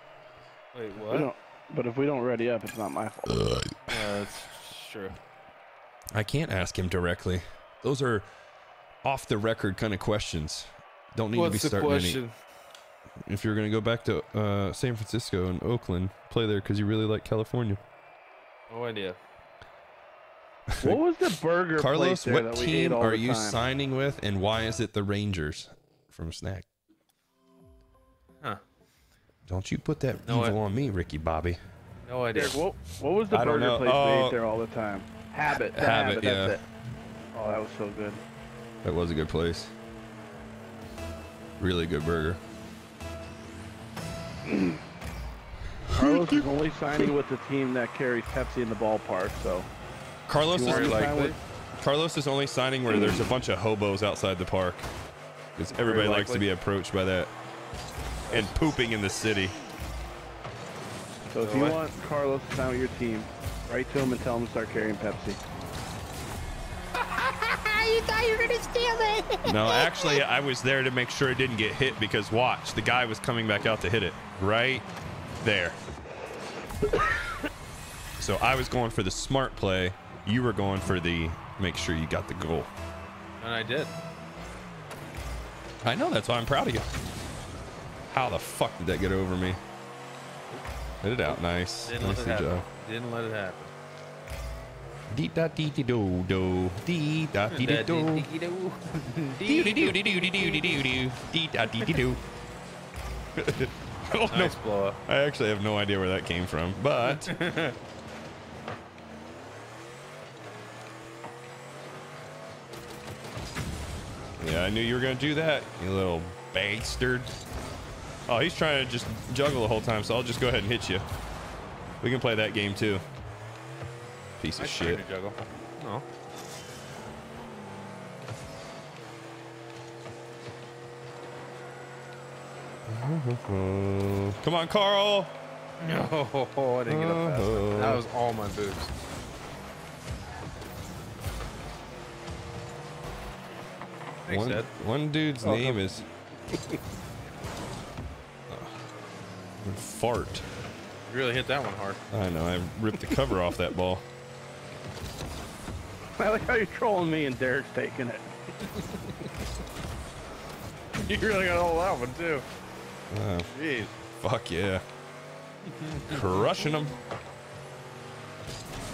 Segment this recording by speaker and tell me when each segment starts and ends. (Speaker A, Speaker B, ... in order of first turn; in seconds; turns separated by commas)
Speaker A: 0.7-1.3, Speaker B: 1.1-3.5, Speaker C: 3.3-4.1, Speaker A: 3.9-5.2, Speaker C: 6.1-8.3, Speaker C: 9.0-12.2, Speaker A: 11.3-12.3, Speaker C: 13.3-17.8, Speaker A: 18.7-19.2, Speaker C: 20.7-21.0, Speaker B: 20.8-23.6, Speaker C: 21.8-26.6, Speaker C: 29.5-31.6, Speaker A: 30.2-30.6, Speaker A: 32.1-32.6, Speaker B: 32.3-36.6, Speaker C: 33.3-34.4, Speaker C: 35.5-36.6, Speaker B: 37.3-38.2, Speaker C: 38.8-39.7, Speaker C: 41.6-42.4, Speaker B: 44.5-44.8, Speaker B: 45.9-49.7, Speaker C: 45.9-46.5, Speaker C: 50.3-51.1, Speaker B: 50.5-51.4, Speaker A: 50.6-51.4, Speaker C: 51.8-54.9, Speaker B: 52.9-53.2, Speaker C: 55.6-57.3, Speaker A: 55.7-56.5, Speaker A: 58.3-58.7, Speaker C: 58.3-59.6, Speaker B: 61.3-65.4, Speaker A: 61.4-61.8, Speaker D: 67.0-70.2, Speaker C: 69.5-74.9, Speaker C: 75.4-75.8, Speaker C: 78.2-82.7, Speaker A: 83.4-83.9, Speaker C: 85.8-86.9, Speaker C: 88.1-89.6, Speaker C: 91.0-92.7, Speaker A: 91.3-93.7, Speaker C: 95.1-98.3, Speaker A: 97.5-100.9, Speaker C: 99.5-102.2, Speaker C: 103.4-107.4, Speaker A: 104.3-105.0, Speaker A: 107.0-107.8, Speaker C: 114.4-117.3, Speaker C: 118.3-121.0, Speaker C: 122.0-123.0, Speaker C: 124.4-125.0, Speaker A: 124.6-126.0, Speaker C: 132.8-135.3, Speaker A: 135.8-138.9, Speaker C: 136.9-138.0, Speaker A: 144.3-144.7, Speaker C: 144.3-146.1, Speaker B: 145.4-145.8, Speaker B: 146.5-146.8, Speaker C: 148.5-148.8, Speaker C: 149.6-150.5, Speaker A: 151.1-152.0, Speaker C: 152.1-154.1, Speaker B: 156.2-158.3, Speaker A: 161.0-162.4, Speaker C: 163.1-163.5, Speaker A: 163.5-163.9, Speaker C: 164.2-164.8, Speaker A: 165.7-166.5, Speaker C: 166.1-166.9